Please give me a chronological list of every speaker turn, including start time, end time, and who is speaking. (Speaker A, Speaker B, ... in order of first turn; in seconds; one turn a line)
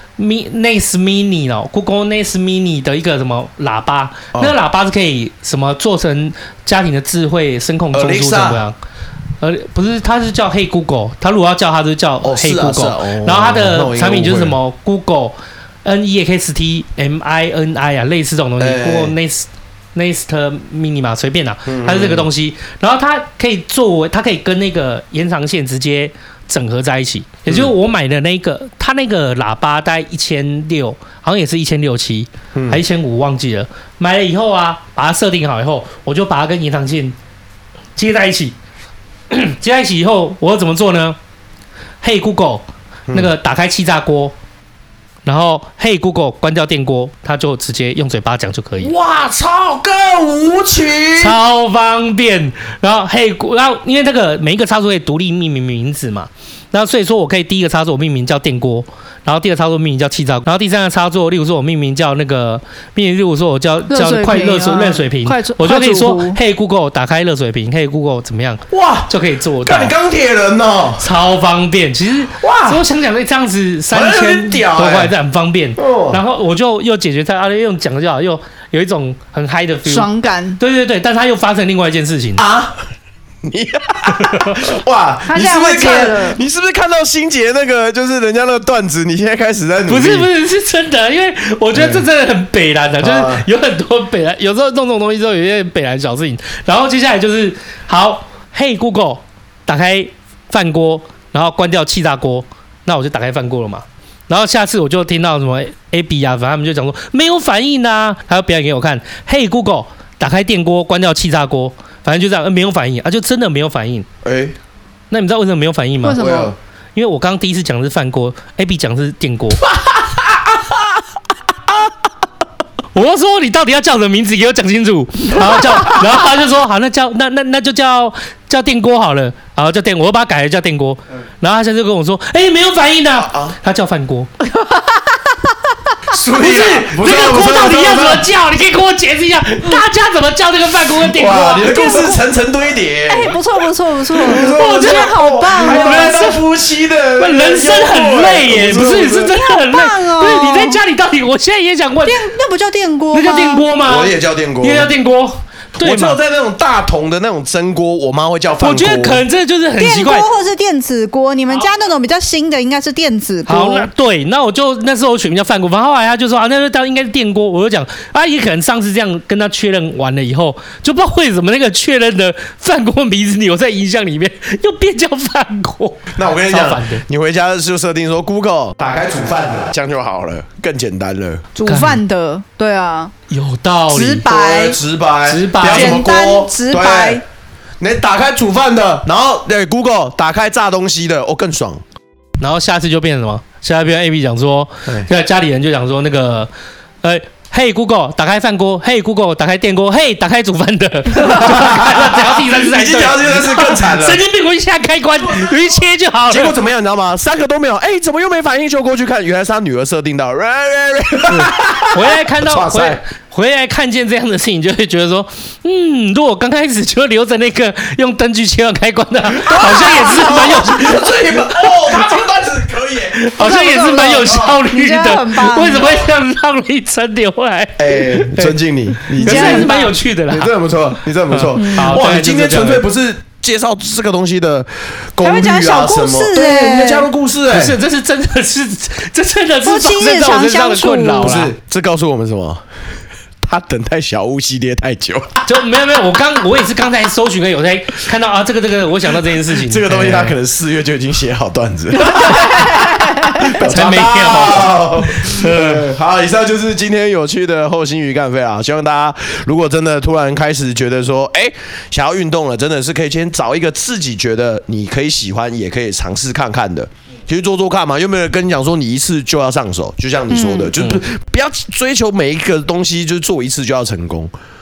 Speaker A: 0.2-8.8
Speaker B: 7.9-8.6
Speaker A: 9.4-37.1
Speaker B: 12.2-14.6
Speaker B: 18.6-19.1
Speaker B: 21.7-22.3
Speaker B: 27.5-27.7
Speaker B: 32.5-32.8
Speaker A: 38.0-38.5
Speaker A: 39.3-41.2
Speaker A: 42.0-44.3
Speaker A: 45.2-48.9
Speaker B: 48.8-51.4
Speaker A: 51.2-69.9
Speaker C: 63.9-66.4
Speaker B: 68.7-71.1
Speaker A: 71.0-82.4
Speaker B: 72.3-72.8
Speaker B: 73.9-75.1
Speaker B: 75.8-76.2
Speaker C: 79.8-80.6
Speaker B: 82.4-82.8
Speaker B: 83.4-90.3
Speaker A: 84.2-84.6
Speaker C: 85.3-86.4
Speaker A: 89.9-114.1
Speaker B: 91.7-92.0
Speaker B: 93.0-93.5
Speaker B: 114.2-114.5
Speaker A: 115.1-116.3
Speaker C: 116.0-116.5
Speaker B: 116.1-116.5
Speaker A: 116.9-119.6
Speaker B: 119.6-120.8
Speaker A: 122.9-134.3
Speaker B: 133.2-133.6
Speaker C: 134.4-135.4
Speaker B: 136.1-138.3
Speaker A: 136.3-142.0
Speaker B: 141.0-143.4
Speaker C: 141.4-142.2
Speaker C: 143.1-146.2
Speaker B: 144.1-149.3
Speaker A: 144.4-146.4
Speaker A: 147.2-152.3
Speaker C: 149.3-150.8
Speaker C: 152.1-153.6
Speaker A: 153.1-156.2
Speaker B: 153.8-154.9
Speaker B: 155.7-159.2
Speaker A: 158.6-160.3
Speaker C: 159.8-163.9
Speaker A: 163.5-177.0
Speaker B: 176.1-181.4
Speaker C: 181.5-183.1
Speaker A: 181.7-182.0
Speaker A: 183.3-184.2
Speaker C: 183.9-184.8
Speaker B: 184.2-187.2
Speaker A: 185.3-186.0
Speaker C: 185.7-187.2
Speaker B: 187.8-191.8
Speaker A: 192.4-196.5
Speaker A: 197.0-206.5
Speaker B: 201.2-204.2
Speaker B: 206.3-213.0
Speaker A: 211.3-221.1
Speaker B: 219.3-223.3
Speaker C: 219.8-220.3
Speaker A: 223.1-230.5
Speaker C: 223.4-226.0
Speaker B: 227.8-237.8
Speaker C: 229.2-229.9
Speaker A: 231.3-232.8
Speaker C: 231.6-232.0
Speaker C: 235.2-237.1
Speaker A: 237.5-241.5
Speaker C: 239.6-241.4
Speaker B: 241.2-242.6
Speaker B: 243.4-245.5
Speaker A: 245.4-250.3
Speaker B: 249.3-274.3
Speaker C: 252.0-253.6
Speaker A: 253.6-255.8
Speaker C: 270.3-270.7
Speaker A: 270.8-271.0